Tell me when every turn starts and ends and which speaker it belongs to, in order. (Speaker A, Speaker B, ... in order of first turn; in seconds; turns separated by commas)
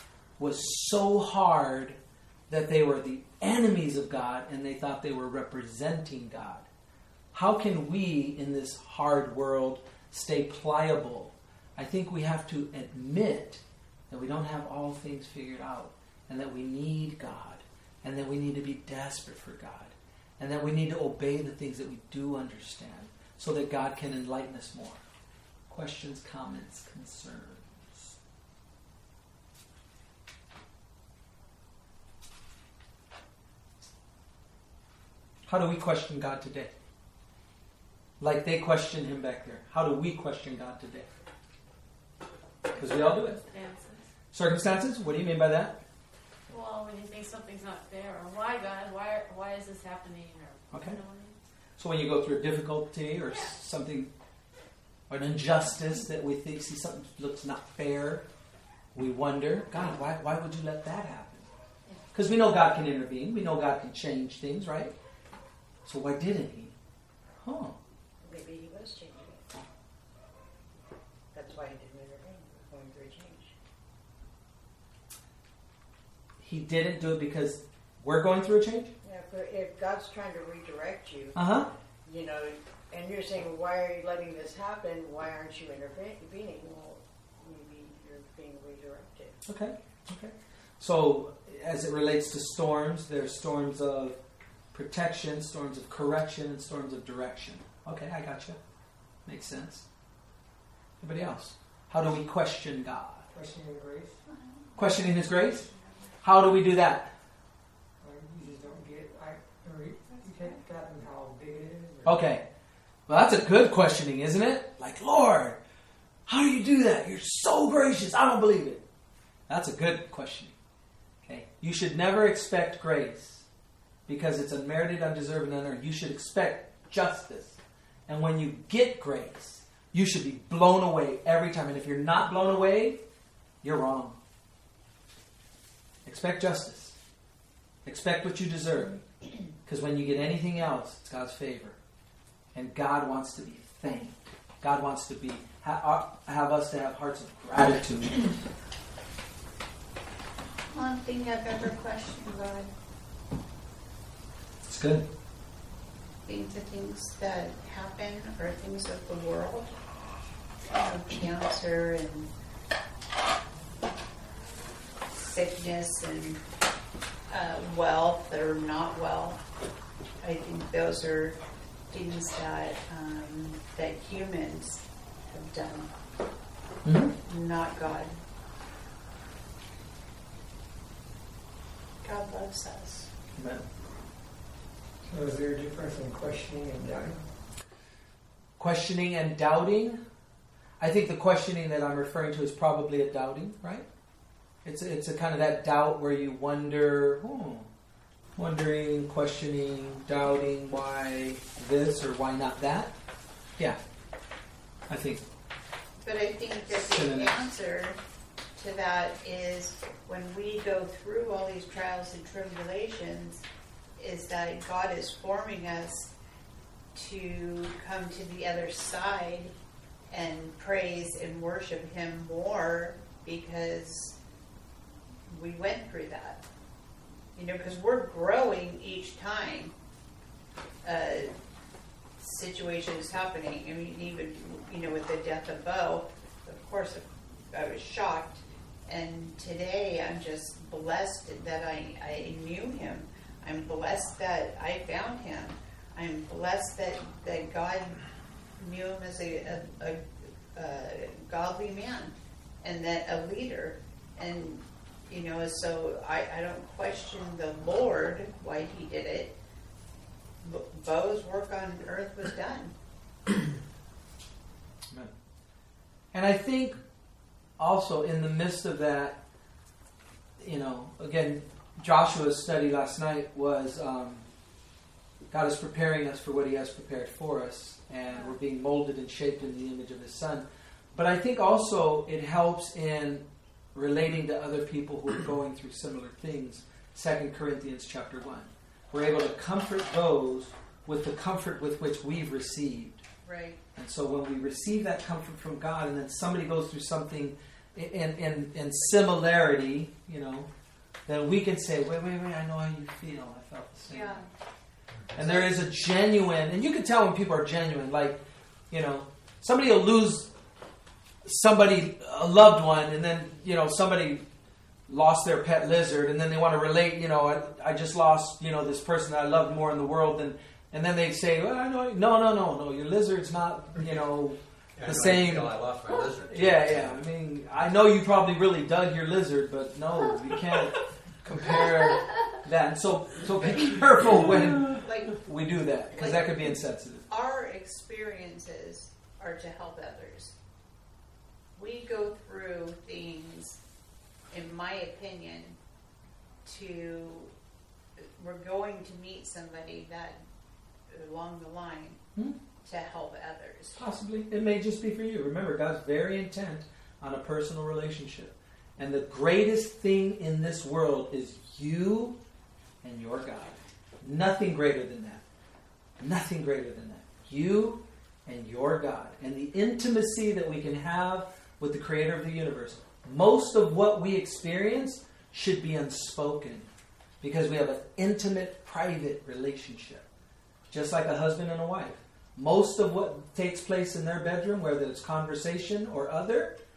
Speaker A: 0.4-2.0, Speaker A: 2.5-6.7, Speaker A: 7.3-25.0, Speaker A: 25.7-28.1, Speaker A: 35.5-36.7, Speaker A: 38.2-41.1, Speaker A: 42.8-43.4, Speaker B: 42.8-44.0, Speaker A: 44.3-45.8, Speaker B: 46.5-51.3, Speaker A: 50.7-51.0, Speaker A: 51.8-54.1, Speaker A: 55.1-58.2, Speaker A: 58.9-61.5, Speaker A: 62.1-65.0, Speaker A: 65.8-66.7, Speaker A: 67.4-67.8, Speaker C: 68.2-69.6, Speaker C: 71.3-73.5, Speaker A: 76.4-78.9, Speaker C: 79.0-81.4, Speaker A: 81.3-81.7, Speaker C: 82.0-89.4, Speaker A: 89.5-94.2, Speaker A: 94.7-98.6, Speaker A: 99.2-99.8, Speaker A: 101.0-103.2, Speaker D: 103.3-104.2, Speaker E: 104.3-104.6, Speaker A: 104.8-105.7, Speaker A: 106.2-107.1, Speaker D: 108.0-112.2, Speaker E: 110.2-110.6, Speaker A: 112.0-112.5, Speaker A: 113.1-115.6, Speaker A: 116.3-118.8, Speaker A: 119.5-120.5, Speaker A: 121.2-123.5, Speaker A: 124.1-133.0, Speaker A: 133.6-134.2, Speaker A: 136.0-137.0, Speaker A: 137.8-139.0, Speaker A: 139.7-141.8, Speaker A: 142.5-148.3, Speaker E: 150.7-152.7, Speaker A: 154.7-155.1, Speaker E: 156.2-159.7, Speaker E: 160.7-162.3, Speaker E: 165.2-166.4, Speaker E: 167.3-169.4, Speaker E: 170.2-171.3, Speaker E: 171.9-175.9, Speaker A: 176.8-177.1, Speaker E: 177.2-178.1, Speaker E: 182.0-183.1, Speaker A: 183.3-183.7, Speaker D: 185.0-187.2, Speaker A: 188.6-190.0, Speaker A: 190.8-193.9, Speaker A: 194.6-197.7, Speaker A: 198.3-202.9, Speaker A: 204.9-205.2, Speaker E: 206.0-208.0, Speaker A: 206.8-207.3, Speaker E: 208.6-213.4, Speaker E: 214.0-216.1, Speaker E: 216.9-219.5, Speaker E: 220.1-224.2, Speaker E: 225.3-226.4, Speaker E: 227.3-229.7, Speaker E: 230.8-231.3, Speaker E: 232.2-248.0, Speaker E: 248.6-250.0, Speaker E: 250.5-259.4, Speaker E: 260.4-262.7, Speaker A: 266.1-266.8, Speaker A: 267.6-269.2, Speaker A: 270.4-274.3, Speaker A: 275.3-293.0, Speaker E: 293.2-293.6, Speaker A: 293.8-300.5, Speaker A: 301.1-304.2, Speaker E: 303.9-304.2, Speaker A: 305.1-310.3, Speaker E: 305.2-305.6, Speaker A: 311.2-314.2, Speaker A: 314.9-325.6, Speaker F: 324.8-327.0, Speaker A: 326.2-337.0, Speaker E: 334.6-335.2, Speaker E: 335.9-336.5, Speaker E: 337.1-340.3, Speaker E: 341.6-343.6, Speaker E: 344.3-345.6, Speaker E: 346.4-347.3, Speaker E: 348.0-350.2, Speaker E: 350.9-352.0, Speaker E: 352.6-353.9, Speaker A: 353.7-362.2, Speaker A: 362.8-365.2, Speaker A: 366.0-376.7, Speaker A: 377.2-380.1, Speaker A: 380.7-386.6